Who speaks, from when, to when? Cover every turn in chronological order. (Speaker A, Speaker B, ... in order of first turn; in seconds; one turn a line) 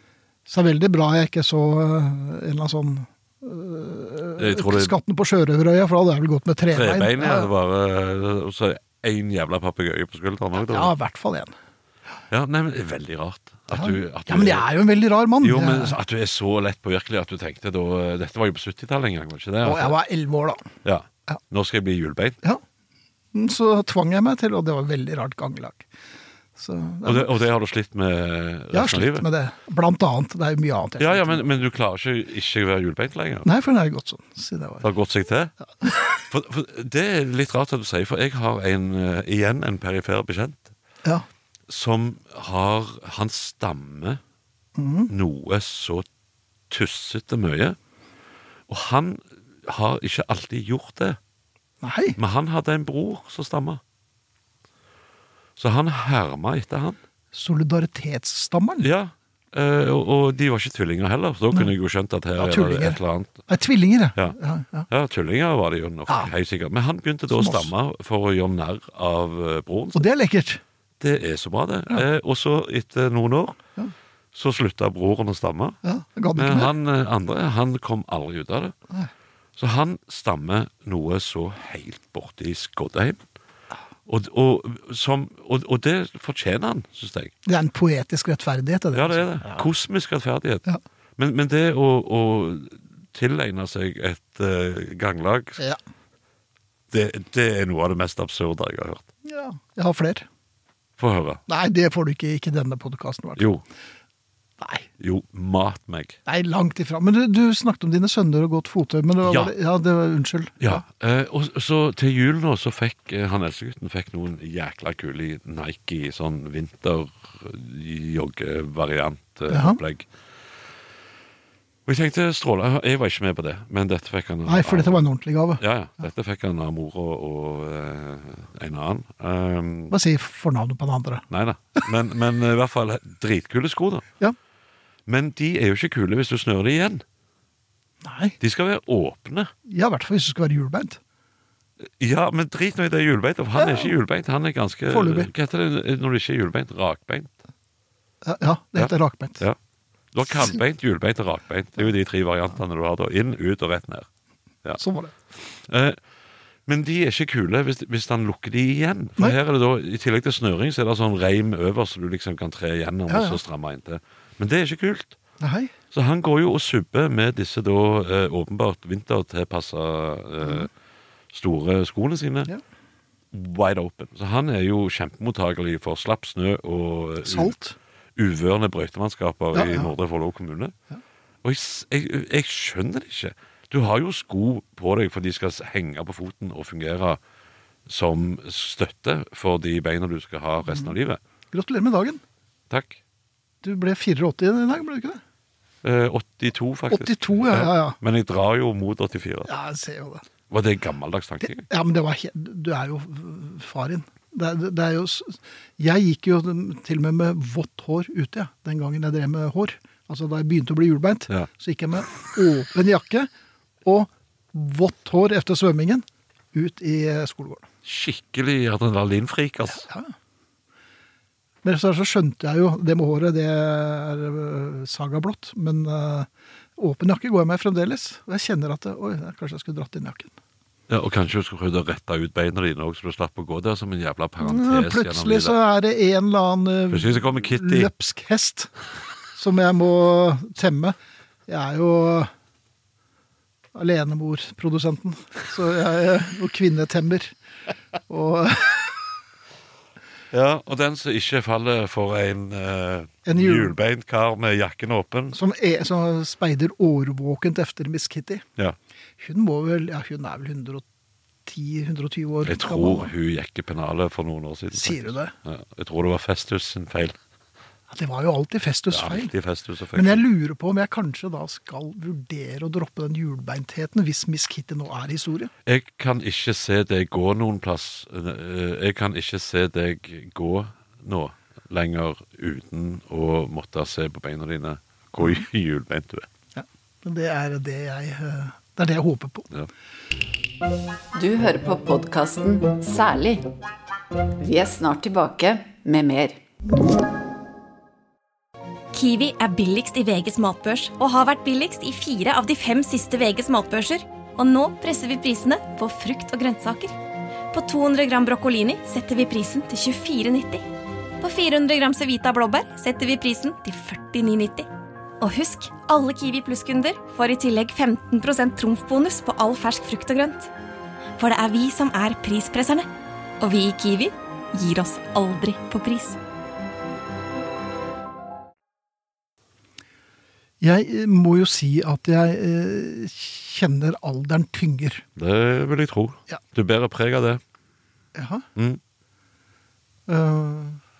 Speaker A: 0.5-7.5
Speaker B: 4.4-5.0
Speaker B: 6.7-10.9
Speaker A: 10.6-11.5
Speaker B: 12.3-14.7
Speaker A: 13.7-16.0
Speaker B: 15.4-20.0
Speaker A: 19.6-20.6
Speaker B: 20.8-22.4
Speaker A: 23.3-25.9
Speaker A: 26.6-27.3
Speaker B: 27.0-29.2
Speaker A: 28.7-31.5
Speaker B: 31.0-33.5
Speaker A: 33.4-34.9
Speaker B: 34.8-35.5
Speaker A: 35.8-36.2
Speaker B: 36.3-40.7
Speaker B: 41.7-44.2
Speaker A: 44.8-45.1
Speaker B: 45.1-46.0
Speaker B: 46.7-47.8
Speaker B: 48.7-51.2
Speaker A: 51.8-52.2
Speaker B: 52.2-53.8
Speaker B: 55.6-57.0
Speaker A: 57.3-58.9
Speaker B: 58.8-63.4
Speaker A: 62.4-64.9
Speaker B: 64.9-70.1
Speaker A: 67.3-67.7
Speaker A: 69.9-70.6
Speaker B: 71.0-73.6
Speaker B: 74.3-75.8
Speaker A: 75.8-76.7
Speaker B: 76.3-78.7
Speaker B: 79.6-83.2
Speaker B: 84.0-87.3
Speaker A: 87.5-89.7
Speaker B: 88.9-90.7
Speaker B: 91.2-95.6
Speaker B: 96.9-99.0
Speaker A: 99.2-100.3
Speaker B: 101.0-101.4
Speaker A: 101.5-103.5
Speaker B: 103.4-103.6
Speaker A: 104.6-104.9
Speaker B: 105.0-106.2
Speaker A: 106.2-110.8
Speaker B: 109.2-109.5
Speaker B: 110.6-120.1
Speaker A: 119.5-119.8
Speaker B: 121.8-125.0
Speaker A: 124.5-125.6
Speaker B: 125.6-129.9
Speaker A: 129.9-131.2
Speaker B: 131.3-134.1
Speaker B: 135.1-137.0
Speaker A: 138.0-138.4
Speaker B: 138.4-139.5
Speaker A: 139.7-141.0
Speaker B: 141.8-147.3
Speaker A: 143.6-143.9
Speaker A: 144.9-145.3
Speaker A: 148.2-149.4
Speaker B: 148.8-149.6
Speaker B: 150.1-154.1
Speaker A: 154.8-155.1
Speaker B: 155.4-156.0
Speaker B: 156.7-165.2
Speaker A: 163.1-163.4
Speaker A: 165.4-165.7
Speaker B: 165.9-170.7
Speaker A: 170.4-170.7
Speaker B: 171.3-172.5
Speaker B: 173.3-177.5
Speaker A: 177.2-177.8
Speaker B: 178.2-180.7
Speaker A: 179.5-179.9
Speaker B: 181.4-187.2
Speaker B: 187.8-191.2
Speaker A: 190.7-190.9
Speaker A: 191.5-192.2
Speaker B: 192.7-193.0
Speaker A: 193.6-195.2
Speaker B: 195.8-199.5
Speaker A: 196.9-198.0
Speaker A: 199.4-200.2
Speaker B: 200.5-201.7
Speaker A: 201.4-213.3
Speaker A: 213.8-217.7
Speaker B: 217.8-219.8
Speaker A: 219.7-220.1
Speaker A: 221.6-230.3
Speaker B: 230.9-235.5
Speaker A: 234.4-238.7
Speaker B: 236.9-237.9
Speaker A: 239.3-242.3
Speaker A: 243.7-247.3
Speaker A: 248.1-249.0
Speaker B: 250.3-255.4
Speaker A: 253.2-253.7
Speaker A: 255.3-258.4
Speaker A: 259.2-260.8
Speaker A: 261.4-263.1
Speaker B: 262.4-267.2
Speaker A: 264.7-265.3
Speaker A: 267.9-269.3
Speaker B: 268.9-270.2
Speaker A: 269.9-275.5
Speaker B: 275.6-286.3
Speaker A: 286.6-289.5
Speaker C: 291.1-293.5
Speaker C: 294.4-296.4
Speaker D: 298.9-306.9
Speaker D: 307.5-310.6
Speaker D: 311.2-314.7
Speaker D: 315.2-320.5
Speaker D: 321.2-322.9
Speaker D: 323.4-326.2
Speaker A: 330.6-335.0
Speaker B: 335.1-337.4
Speaker A: 338.1-338.4
Speaker A: 340.1-340.8